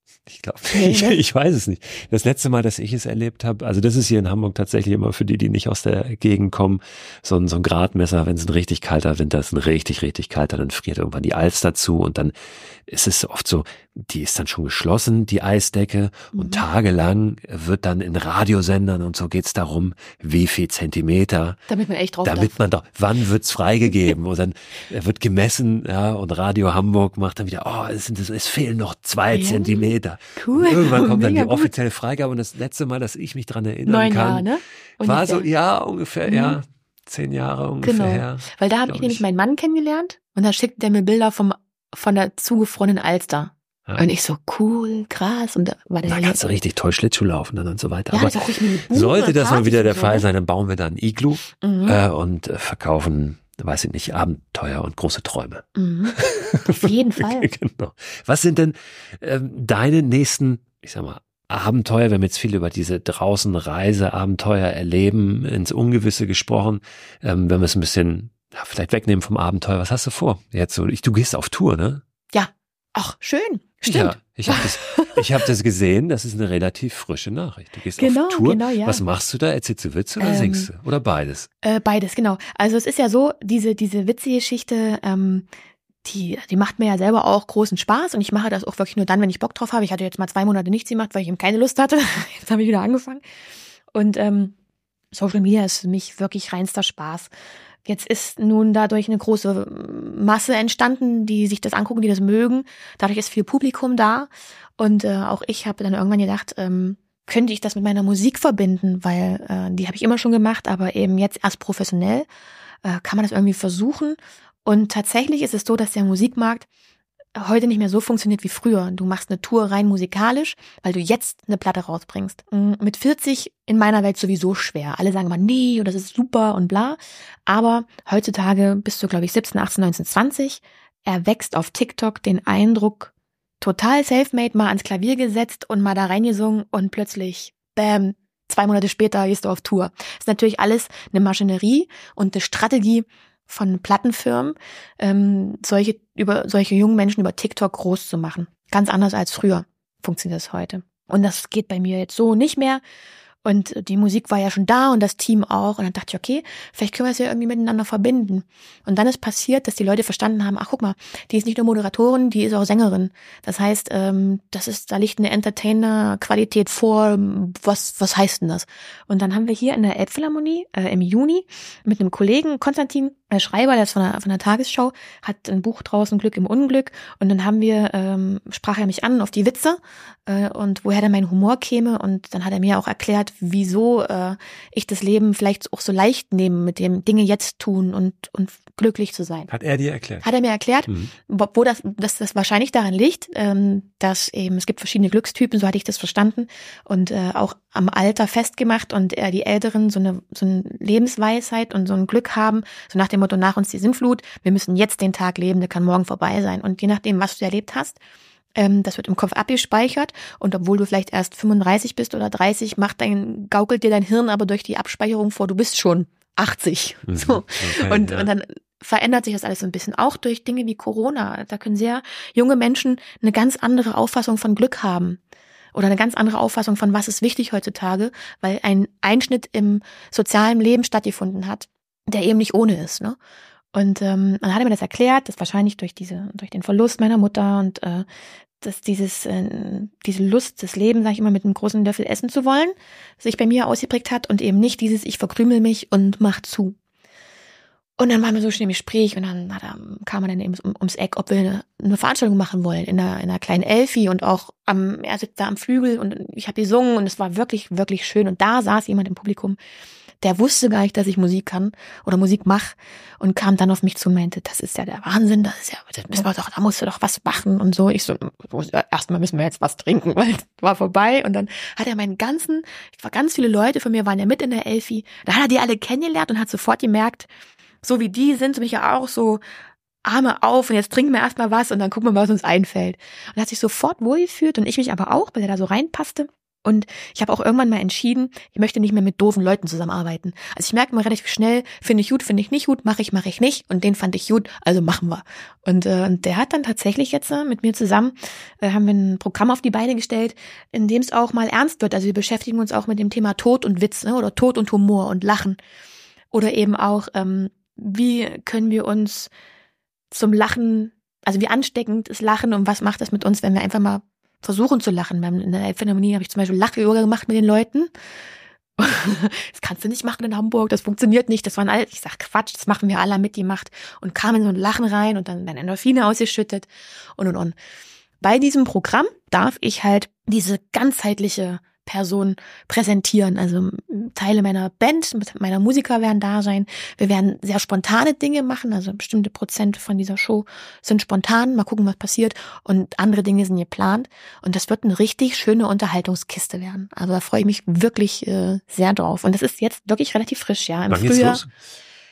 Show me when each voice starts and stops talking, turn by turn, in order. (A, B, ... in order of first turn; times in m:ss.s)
0:00.2-0:12.3 A
0:00.7-0:01.2 B
0:12.8-0:21.6 A
0:16.3-0:16.6 B
0:21.7-0:22.6 B
0:22.2-0:34.5 A
0:29.3-0:31.7 B
0:33.8-0:35.5 B
0:35.0-0:39.2 A
0:36.2-0:36.6 B
0:37.8-0:46.6 B
0:46.0-1:12.0 A
0:48.1-0:50.2 B
0:51.6-0:52.0 B
0:55.8-0:57.5 B
1:12.3-1:15.5 B
1:13.8-1:21.5 A
1:18.0-1:19.0 B
1:20.2-1:20.7 B
1:21.6-1:25.5 B
1:26.0-1:33.2 B
1:33.9-1:34.5 B
1:35.1-1:37.3 B
1:37.8-1:52.3 B
1:52.8-1:56.7 B
1:57.4-2:32.8 B
2:33.4-3:09.5 B
3:09.5-3:10.2 A
3:10.2-3:28.0 B
3:28.5-3:45.2 B
3:37.1-3:38.3 A
3:45.7-3:53.2 B
3:53.7-3:58.0 B
3:58.6-4:06.8 B
4:08.0-4:19.6 B
4:20.2-4:37.3 B
4:37.8-4:39.4 B
4:40.0-5:05.6 B
5:06.3-5:09.3 B
5:10.1-5:17.9 B
5:18.8-5:27.5 B
5:28.2-5:51.4 B
5:50.9-5:51.5 A